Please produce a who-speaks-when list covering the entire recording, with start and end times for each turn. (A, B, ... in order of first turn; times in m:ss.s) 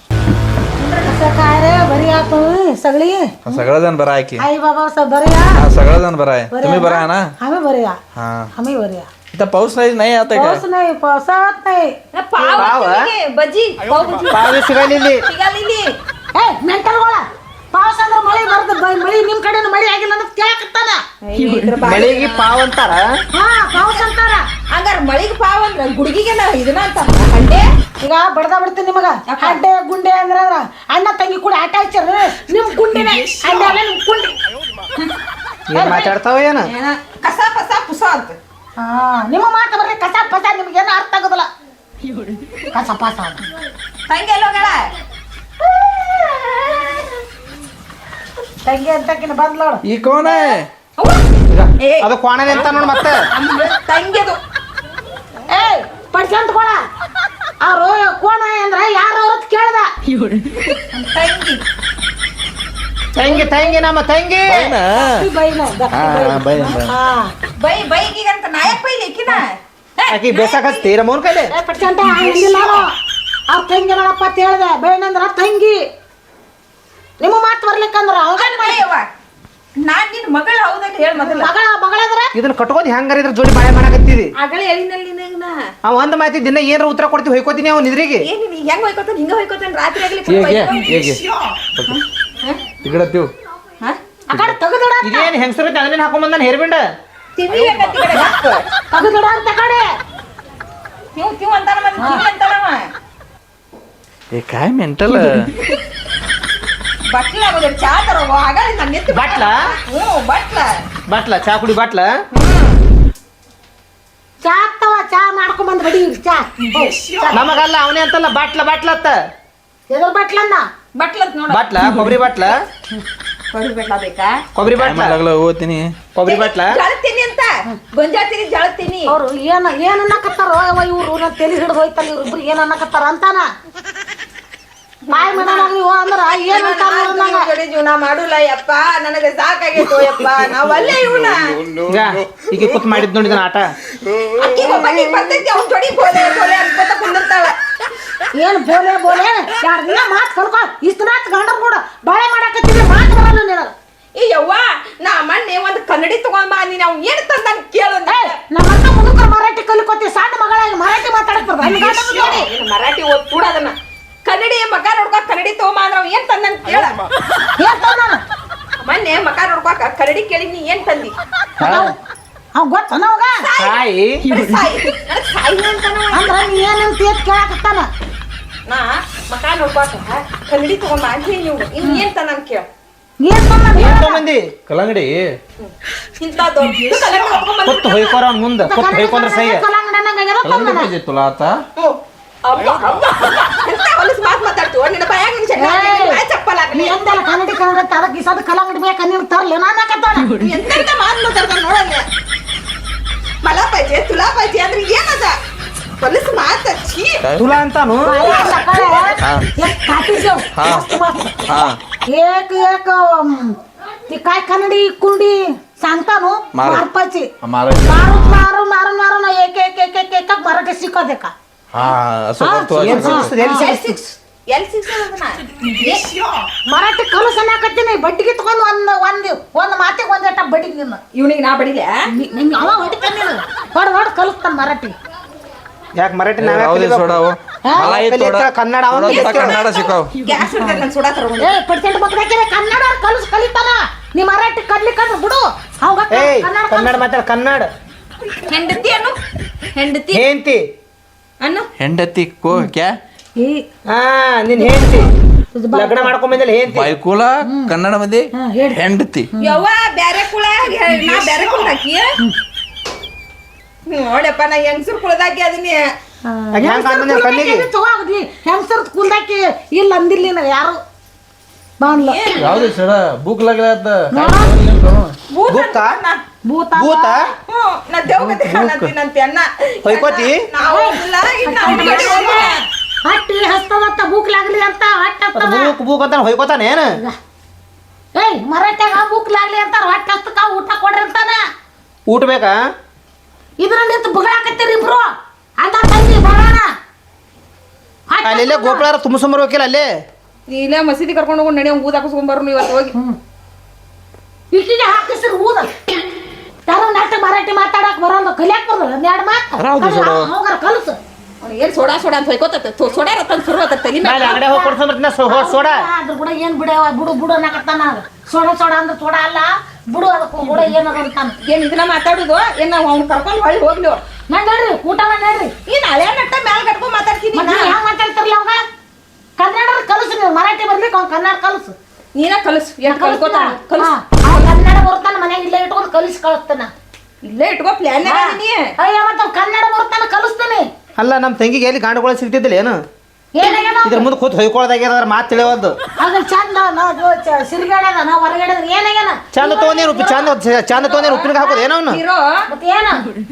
0:00.8-0:03.6 A
0:03.4-0:04.5 B
0:04.4-0:05.6 A
0:05.6-0:07.2 B
0:06.5-0:08.0 A
0:08.2-0:08.5 B
0:08.6-0:09.1 A
0:09.3-0:10.6 B
0:10.3-0:12.7 A
0:12.2-0:14.4 C
0:12.6-0:13.1 D
0:14.3-0:15.2 D
0:15.3-0:15.9 C
0:16.4-0:21.0 A
0:21.3-0:22.5 C
0:21.8-0:23.1 D
0:23.4-0:24.4 A
0:24.7-0:27.6 C
0:28.0-0:34.4 A
0:29.3-0:29.6 C
0:33.0-0:33.8 C
0:35.7-0:36.7 D
0:35.7-0:36.1 A
0:36.6-0:38.4 C
0:38.8-0:41.5 A
0:42.7-0:43.4 A
0:44.1-0:44.9 C
0:46.2-0:46.9 C
0:48.7-0:49.8 A
0:49.8-0:50.7 B
0:50.2-0:51.2 C
0:51.5-0:53.2 D
0:51.8-0:52.1 C
0:53.3-0:54.4 C
0:55.5-0:56.8 A
0:57.6-0:59.9 A
1:00.8-1:01.6 C
1:03.2-1:04.8 D
1:03.2-1:03.8 A
1:04.5-1:05.3 B
1:05.0-1:07.3 A
1:05.9-1:06.9 B
1:07.6-1:10.9 C
1:10.1-1:11.5 D
1:11.5-1:13.0 A
1:11.9-1:12.9 C
1:13.5-1:15.8 A
1:17.2-1:18.8 A
1:18.4-1:19.1 C
1:19.8-1:21.5 C
1:21.2-1:22.3 A
1:22.4-1:24.3 D
1:24.4-1:25.6 C
1:25.8-1:28.3 D
1:28.2-1:31.2 C
1:30.3-1:31.2 B
1:31.9-1:32.6 C
1:32.8-1:33.3 B
1:34.3-1:35.3 A
1:35.0-1:36.8 D
1:37.4-1:38.6 C
1:38.9-1:39.8 A
1:41.2-1:42.9 C
1:42.0-1:42.2 A
1:44.3-1:45.5 B
1:47.1-1:50.8 C
1:49.1-1:49.6 D
1:51.1-1:52.1 D
1:52.3-1:52.8 C
1:54.4-1:57.6 A
1:56.7-1:57.5 C
1:57.3-1:59.2 D
1:59.9-2:00.6 A
2:01.0-2:02.6 C
2:01.5-2:02.6 D
2:03.5-2:04.4 C
2:04.6-2:05.2 D
2:04.8-2:06.0 B
2:06.2-2:06.8 D
2:06.3-2:09.1 C
2:09.1-2:13.5 A
2:15.1-2:15.7 C
2:15.1-2:17.5 A
2:16.3-2:21.6 C
2:21.6-2:22.0 B
2:21.9-2:23.7 D
2:24.4-2:27.6 C
2:28.4-2:33.7 A
2:34.2-2:38.4 C
2:38.1-2:42.5 A
2:41.6-2:47.0 C
2:47.6-2:48.2 A
2:48.8-2:51.2 C
2:51.6-2:52.0 A
2:52.6-2:53.4 A
2:53.4-2:56.4 C
2:53.6-2:54.2 D
2:56.1-2:57.9 A
2:58.7-3:02.7 C
3:03.2-3:04.2 A
3:03.8-3:04.8 D
3:04.7-3:05.3 B
3:05.6-3:08.2 C
3:07.7-3:09.6 D
3:08.6-3:10.9 A
3:10.4-3:11.6 B
3:11.8-3:17.0 C
3:15.6-3:16.2 A
3:16.7-3:20.4 A
3:20.4-3:22.0 C
3:23.4-3:25.4 C
3:26.0-3:27.2 C
3:27.2-3:27.5 B
3:27.4-3:28.2 D
3:28.0-3:31.4 A
3:28.2-3:29.1 C
3:29.2-3:29.5 B
3:30.5-3:30.9 B
3:31.5-3:31.8 B
3:32.1-3:33.6 A
3:34.1-3:37.3 A
3:36.5-3:36.8 B
3:37.4-3:38.4 B
3:37.9-3:41.3 A
3:41.7-3:43.3 B
3:42.4-3:43.8 A
3:42.8-3:44.1 D
3:43.5-3:43.9 C
3:44.5-3:46.2 C
3:46.7-3:51.0 A
3:51.1-3:52.0 C
3:52.1-3:55.0 A
3:56.0-3:57.2 D
3:56.4-4:00.1 B
3:57.7-3:58.0 A
3:57.8-3:59.6 D
3:59.1-4:01.6 C
4:00.6-4:00.8 A
4:01.4-4:07.0 A
4:06.1-4:07.7 D
4:08.5-4:09.2 C
4:09.8-4:10.2 C
4:10.1-4:10.6 D
4:11.4-4:11.7 C
4:11.8-4:13.0 B
4:13.4-4:13.6 A
4:13.9-4:15.1 D
4:15.6-4:16.2 A
4:15.7-4:16.9 D
4:16.7-4:19.3 B
4:17.4-4:17.7 A
4:18.3-4:18.8 A
4:19.3-4:19.6 A
4:19.4-4:22.1 C
4:23.9-4:25.8 C
4:26.3-4:30.8 A
4:26.6-4:27.7 D
4:31.8-4:32.2 A
4:32.0-4:32.7 C
4:32.4-4:35.2 B
4:34.1-4:34.6 A
4:35.3-4:36.2 C
4:35.5-4:36.0 D
4:36.5-4:37.3 A
4:36.8-4:37.2 D
4:37.5-4:42.6 C
4:38.2-4:38.9 D
4:39.8-4:40.4 D
4:40.6-4:45.7 A
4:45.4-4:46.9 D
4:48.2-4:51.4 A
4:52.1-4:52.6 D
4:53.6-4:55.1 A
4:55.6-4:56.7 A
4:58.1-4:58.9 A
4:58.2-4:59.9 D
5:00.5-5:03.0 C
5:04.5-5:05.7 A
5:06.7-5:11.0 A
5:09.6-5:10.3 B
5:11.4-5:14.4 C
5:14.0-5:15.8 D
5:14.2-5:21.4 A
5:20.4-5:20.7 C
5:21.5-5:24.0 C
5:24.3-5:25.5 A
5:25.7-5:27.8 C
5:27.3-5:28.6 A
5:29.4-5:31.8 A
5:32.2-5:34.5 C
5:32.9-5:36.7 A
5:37.2-5:38.7 C
5:38.0-5:40.7 A
5:41.0-5:42.8 D
5:43.4-5:44.1 A
5:43.8-5:45.8 D
5:46.0-5:50.3 A
5:49.3-5:52.0 D
5:50.7-5:52.2 C
5:52.5-5:53.1 A